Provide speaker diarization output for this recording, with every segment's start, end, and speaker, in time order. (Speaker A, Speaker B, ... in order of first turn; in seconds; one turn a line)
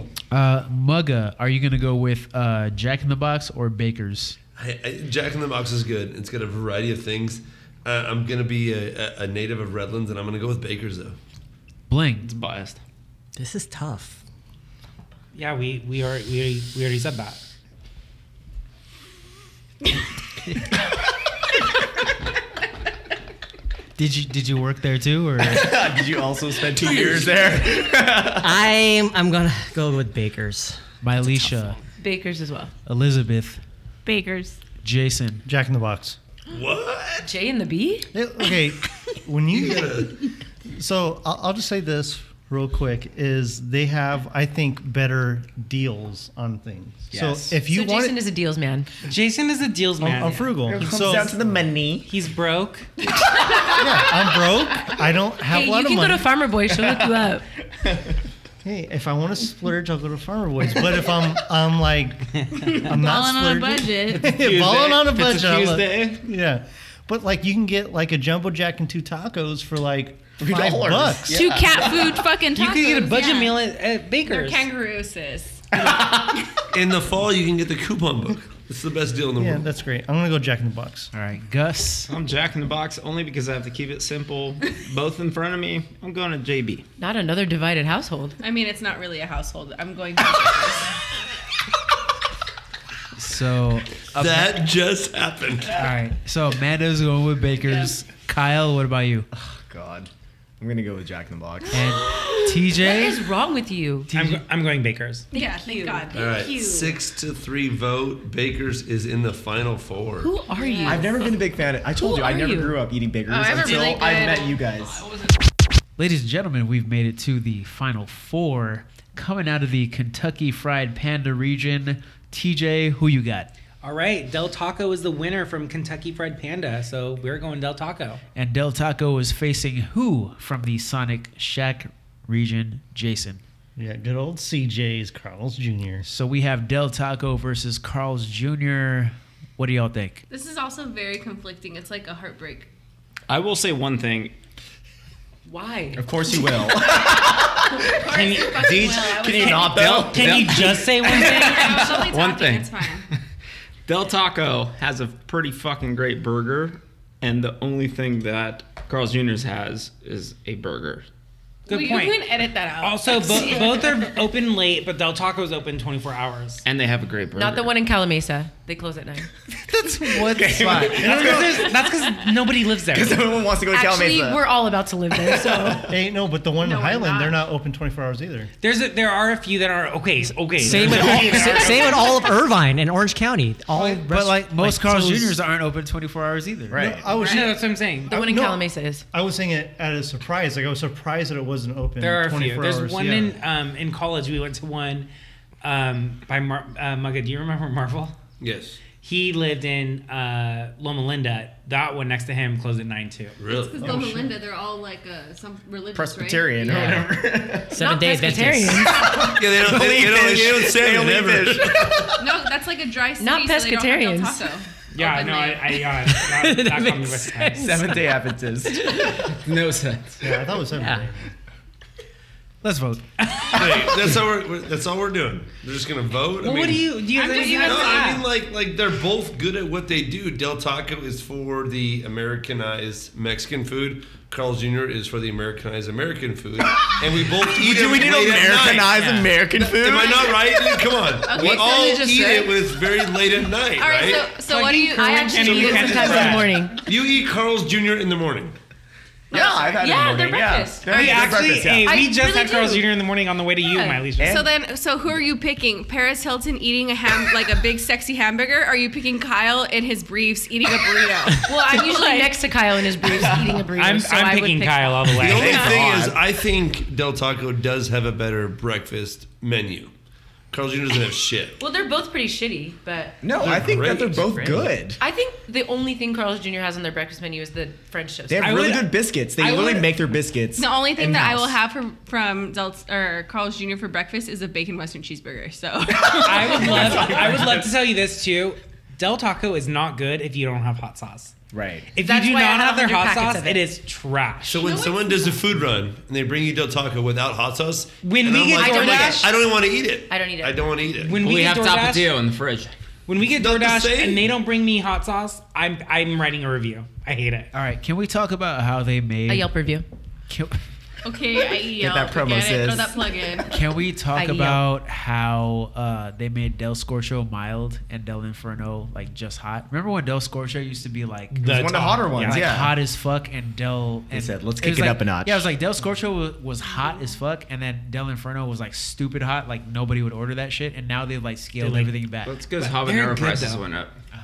Speaker A: 0.3-4.4
Speaker B: 4.6-11.2
Speaker A: 11.9-12.3
Speaker C: 12.2-12.8
Speaker D: 13.3-14.2
Speaker E: 15.3-17.4
Speaker A: 24.0-25.8
Speaker F: 25.4-28.6
Speaker D: 28.4-30.8
Speaker A: 31.0-31.8
Speaker G: 32.0-32.7
Speaker A: 32.9-33.6
Speaker H: 34.0-34.6
Speaker A: 34.8-35.4
Speaker I: 35.5-36.2
Speaker B: 36.5-37.3
Speaker G: 37.2-38.1
Speaker I: 38.1-40.2
Speaker B: 39.5-40.2
Speaker I: 40.7-48.2
Speaker F: 47.1-47.6
Speaker G: 47.7-48.9
Speaker E: 49.1-51.3
Speaker I: 50.0-51.4
Speaker F: 50.7-52.1
Speaker E: 52.0-52.9
Speaker J: 53.4-53.8
Speaker I: 53.7-56.3
Speaker G: 55.5-57.4
Speaker I: 58.6-71.4
Speaker H: 62.8-64.3
Speaker C: 64.1-66.2
Speaker F: 70.4-72.2
Speaker H: 71.3-72.8
Speaker J: 72.2-73.6
Speaker E: 72.5-74.7
Speaker J: 74.2-76.0
Speaker F: 75.8-76.4
Speaker B: 76.7-79.7
Speaker I: 79.3-81.1
Speaker A: 81.1-82.1
Speaker C: 82.1-86.8
Speaker G: 87.0-88.4
Speaker J: 88.4-91.0
Speaker A: 93.2-94.6
Speaker B: 94.2-95.8
Speaker A: 95.7-99.3
Speaker F: 99.3-102.0
Speaker A: 101.7-103.2
Speaker J: 102.0-102.4
Speaker G: 102.3-104.1
Speaker A: 104.1-104.4
Speaker E: 104.1-105.3
Speaker J: 105.3-106.8
Speaker G: 105.3-107.0
Speaker B: 106.1-110.3
Speaker G: 110.2-111.4
Speaker J: 110.5-111.3
Speaker F: 110.9-115.0
Speaker G: 111.9-114.6
Speaker J: 113.5-114.5
Speaker A: 116.0-123.5
Speaker E: 123.8-128.2
Speaker A: 128.3-133.4
Speaker I: 133.8-136.1
Speaker A: 136.0-140.2
Speaker J: 140.3-142.7
Speaker C: 143.3-144.3
Speaker G: 145.4-150.0
Speaker F: 145.9-147.8
Speaker E: 148.1-152.0
Speaker J: 148.1-148.4
Speaker F: 148.5-151.1
Speaker C: 149.8-151.2
Speaker J: 151.1-153.1
Speaker G: 151.2-152.0
Speaker C: 152.1-153.0
Speaker C: 153.8-161.1
Speaker E: 161.7-162.3
Speaker J: 161.7-164.2
Speaker E: 162.8-166.6
Speaker C: 166.6-167.7
Speaker G: 167.3-169.3
Speaker A: 169.6-171.2
Speaker F: 170.4-171.8
Speaker E: 170.6-173.2
Speaker I: 171.0-171.7
Speaker F: 172.9-174.5
Speaker G: 173.7-175.9
Speaker F: 175.4-175.8
Speaker I: 175.9-178.5
Speaker J: 176.6-177.5
Speaker E: 178.6-182.1
Speaker D: 180.5-185.3
Speaker F: 180.8-181.3
Speaker J: 181.6-182.2
Speaker A: 184.1-186.9
Speaker F: 186.7-187.1
Speaker I: 186.7-193.3
Speaker J: 187.0-187.6
Speaker E: 187.2-188.2
Speaker G: 188.1-189.0
Speaker E: 192.0-195.1
Speaker E: 195.6-198.2
Speaker B: 198.4-198.8
Speaker E: 199.0-203.4
Speaker B: 203.4-204.0
Speaker J: 203.5-207.1
Speaker F: 205.9-207.8
Speaker D: 206.7-207.0
Speaker G: 206.8-207.1
Speaker D: 207.7-209.0
Speaker G: 207.7-209.3
Speaker F: 208.9-212.2
Speaker B: 209.2-212.2
Speaker J: 212.2-215.8
Speaker G: 213.2-214.5
Speaker E: 214.9-217.8
Speaker D: 216.0-218.1
Speaker F: 217.5-219.0
Speaker C: 219.0-220.4
Speaker I: 220.2-221.3
Speaker D: 220.7-221.1
Speaker A: 222.6-223.0
Speaker E: 223.3-223.6
Speaker B: 223.5-244.3
Speaker E: 226.4-228.3
Speaker J: 227.1-228.1
Speaker F: 237.2-240.5
Speaker J: 241.3-242.4
Speaker G: 241.3-242.4
Speaker F: 241.4-241.6
Speaker J: 243.8-246.2
Speaker G: 244.5-246.8
Speaker E: 245.0-246.5
Speaker F: 245.4-246.4
Speaker B: 246.8-248.5
Speaker J: 249.3-250.0
Speaker F: 249.3-252.0
Speaker G: 249.3-251.2
Speaker E: 250.9-254.5
Speaker G: 251.8-252.9
Speaker G: 253.7-254.0
Speaker F: 254.2-254.5
Speaker J: 254.2-262.4
Speaker G: 261.4-265.4
Speaker F: 263.2-263.5
Speaker E: 263.7-265.7
Speaker B: 265.2-269.9
Speaker F: 265.2-266.2
Speaker J: 265.4-265.9
Speaker B: 270.5-271.6
Speaker G: 271.6-273.6
Speaker F: 273.2-275.0
Speaker B: 273.4-274.6
Speaker G: 274.4-278.6
Speaker F: 278.3-281.6
Speaker E: 278.4-279.9
Speaker J: 280.5-287.4
Speaker F: 286.0-287.7
Speaker E: 286.2-291.3
Speaker F: 291.5-291.9
Speaker E: 291.9-294.7
Speaker G: 292.0-293.7
Speaker B: 294.5-301.2
Speaker J: 294.6-295.4
Speaker E: 298.0-299.3
Speaker G: 298.6-299.6
Speaker G: 300.1-300.6
Speaker E: 301.0-302.2
Speaker C: 301.2-302.7
Speaker E: 303.1-307.5
Speaker B: 303.3-304.3
Speaker A: 307.5-309.5
Speaker G: 309.3-309.8
Speaker A: 310.3-310.6
Speaker J: 311.0-313.5
Speaker F: 311.8-312.9
Speaker A: 313.5-332.4
Speaker G: 314.1-314.6
Speaker E: 321.3-322.5
Speaker F: 321.4-322.8
Speaker F: 324.1-325.4
Speaker E: 331.6-331.9
Speaker C: 332.2-333.9
Speaker E: 332.6-333.6